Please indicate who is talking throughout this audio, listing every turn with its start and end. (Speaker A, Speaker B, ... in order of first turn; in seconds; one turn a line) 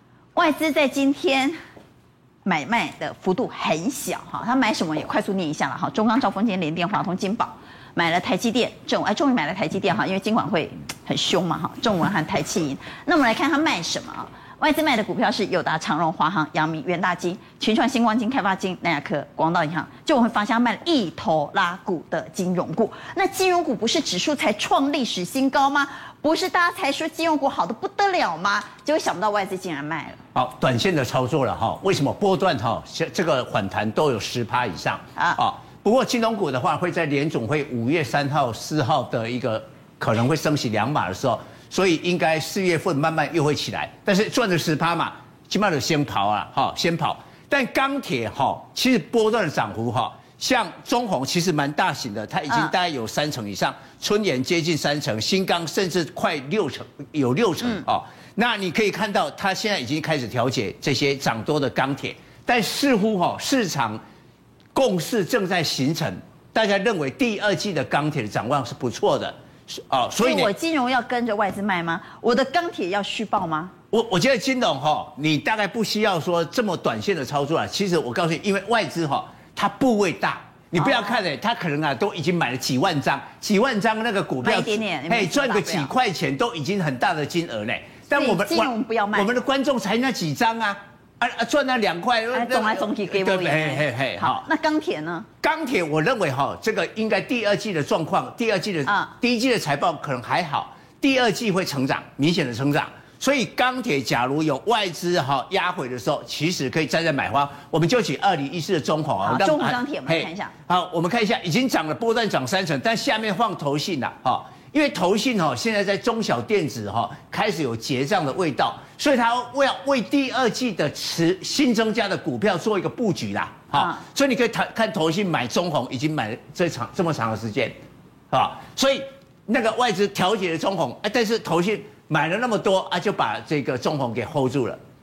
Speaker A: 0.3-1.5
Speaker A: 2.4-30.2
Speaker B: 30.3-64.0
Speaker A: 35.1-35.4
Speaker A: 52.5-52.7
Speaker B: 64.7-70.5
Speaker A: 70.2-73.7
Speaker B: 73.9-94.4
Speaker A: 80.8-81.2
Speaker A: 84.4-85.9
Speaker A: 88.1-89.3
Speaker A: 92.3-95.2
Speaker B: 95.4-127.8
Speaker A: 98.8-99.1
Speaker A: 109.2-110.5
Speaker A: 123.7-124.0
Speaker B: 128.3-134.8